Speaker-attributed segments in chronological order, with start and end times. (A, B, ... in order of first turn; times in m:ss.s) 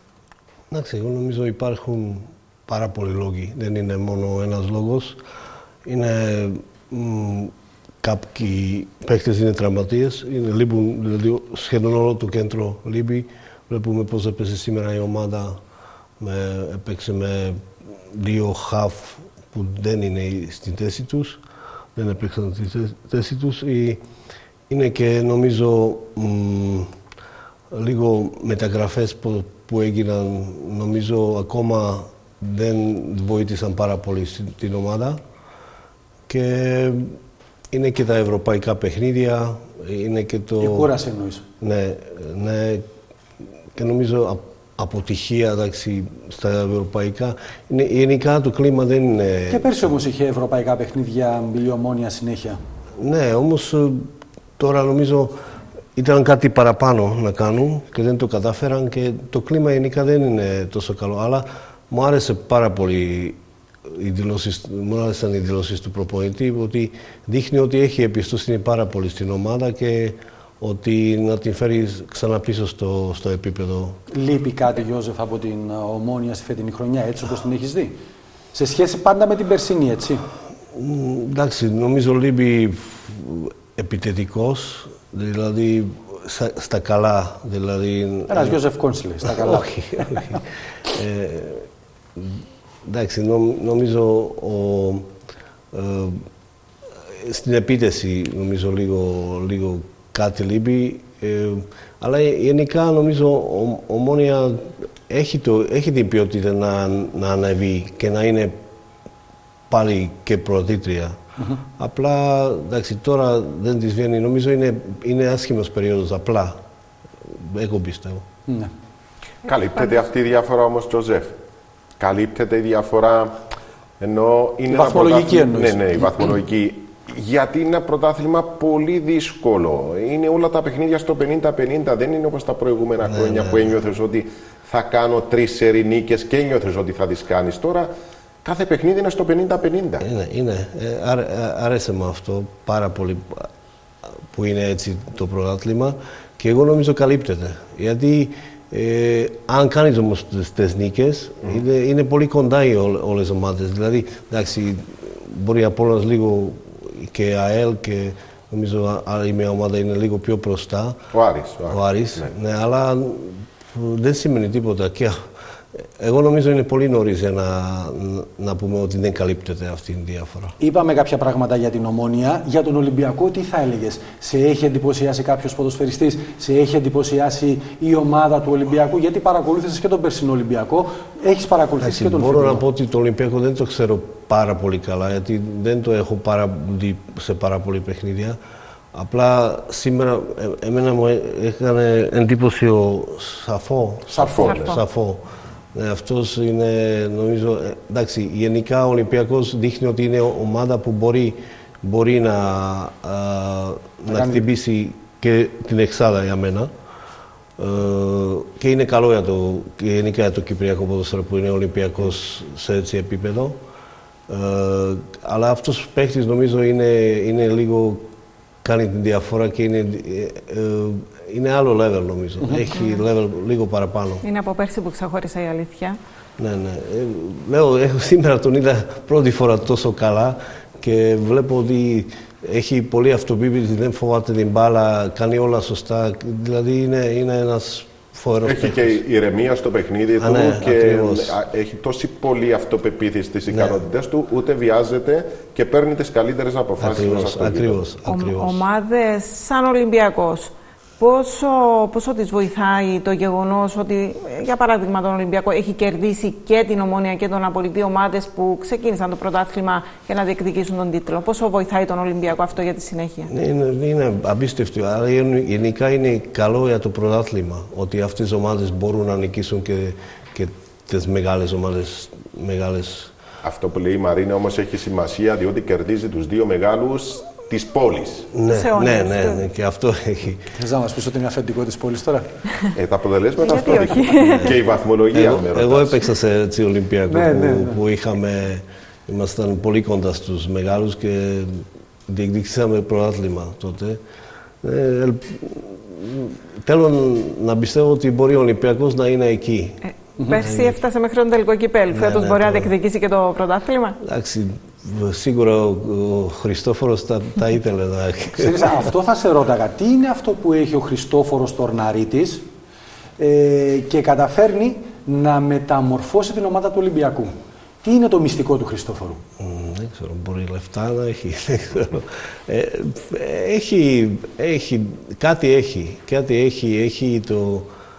0:00.7-0:05.2 A
0:05.8-0:15.6 A
0:16.2-0:21.4 A
0:22.0-0:24.0 A
0:24.7-0:26.9 A
0:27.7-0:35.2 A
0:36.3-0:37.2 A
0:37.7-0:40.9 A
0:40.6-0:41.4 B
0:41.6-0:42.8 A
0:43.8-0:49.8 A
0:49.5-0:52.6 B
0:53.0-0:54.1 A
0:54.6-0:55.3 A
0:56.0-1:14.0 A
1:14.1-1:18.0 B
1:18.5-1:20.3 B
1:20.7-1:28.6 A
1:28.3-1:30.4 B
1:29.2-1:35.1 A
1:35.7-1:36.2 A
1:37.1-1:48.6 A
1:49.7-1:51.2 A
1:51.8-1:56.6 A
1:57.2-1:58.2 A
1:59.4-2:01.4 C
2:02.0-2:03.4 C
2:04.0-2:17.9 C
2:04.7-2:06.3 B
2:13.0-2:13.6 A
2:18.4-2:20.0 C
2:20.0-2:23.5 A
2:24.2-2:41.0 A
2:41.1-2:42.3 C
2:41.7-2:45.2 A
2:45.8-2:50.5 A
2:50.6-3:02.6 B
3:01.8-3:08.4 A
3:08.9-3:15.2 A
3:14.1-3:14.8 C
3:14.1-3:14.5 B
3:14.4-3:14.8 D
3:15.7-3:26.7 A
3:24.1-3:24.4 B
3:27.6-3:33.6 A
3:34.3-3:38.0 A
3:38.6-3:44.2 A
3:42.7-3:43.0 D
3:44.2-3:46.0 D
3:46.4-3:59.0 A
3:58.4-4:07.8 C
4:00.2-4:01.4 A
4:03.5-4:03.8 A
4:06.8-4:08.6 A
4:08.0-4:23.3 D
4:23.3-4:33.1 A
4:33.4-4:38.3 C
4:38.3-4:40.5 A
4:38.5-4:39.5 D
4:40.5-4:42.3 B
4:42.8-4:46.0 C
4:43.4-4:44.6 D
4:44.2-4:44.6 A
4:45.1-4:54.0 A
4:47.1-4:47.8 B
4:54.6-5:00.8 A
4:59.8-5:04.0 D
5:01.9-5:02.7 A
5:04.0-5:08.9 A
5:08.3-5:12.5 B
5:13.2-5:19.2 B
5:19.4-5:27.7 A